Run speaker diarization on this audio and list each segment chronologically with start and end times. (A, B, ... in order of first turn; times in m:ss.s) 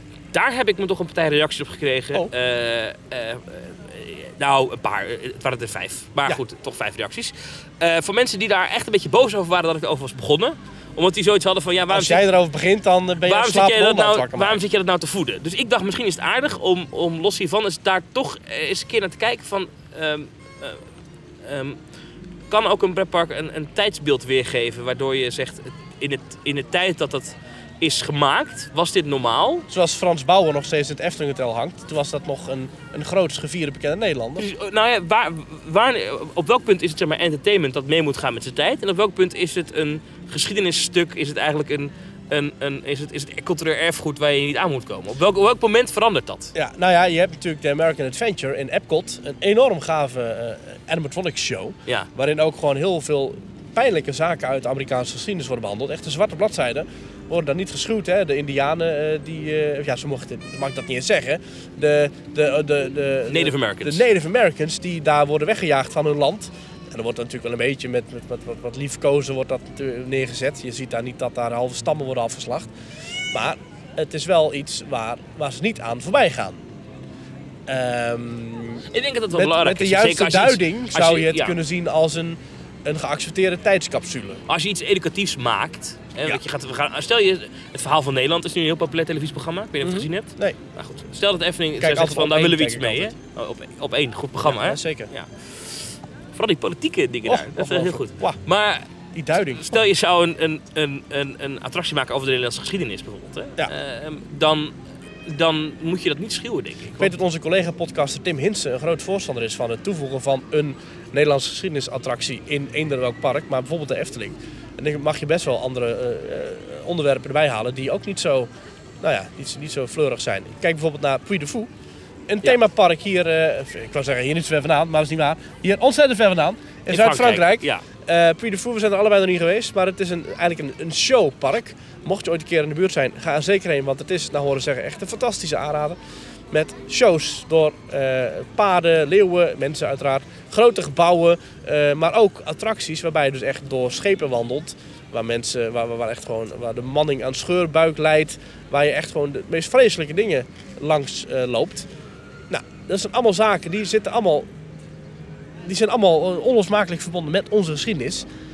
0:00.3-0:12.2 A
0:11.9-0:14.6 B
0:13.2-0:20.8 A
0:21.4-0:21.8 A
0:22.5-0:29.6 A
0:29.7-0:34.5 B
0:34.4-0:46.5 A
0:46.5-1:12.7 B
1:03.3-1:04.0 A
1:13.3-1:16.6 B
1:17.7-1:24.4 B
1:18.9-1:21.6 A
1:24.5-1:35.3 A
1:29.8-1:30.6 B
1:31.8-1:33.1 B
1:34.4-1:35.1 B
1:36.3-1:38.8 A
1:37.3-1:38.4 B
1:39.1-1:39.8 B
1:39.4-1:44.7 A
1:45.2-1:47.1 A
1:47.0-1:58.5 B
1:59.0-2:01.7 B
2:02.3-2:16.0 B
2:06.9-2:07.8 A
2:16.5-2:31.9 B
2:32.5-2:34.5 B
2:35.6-2:38.3 B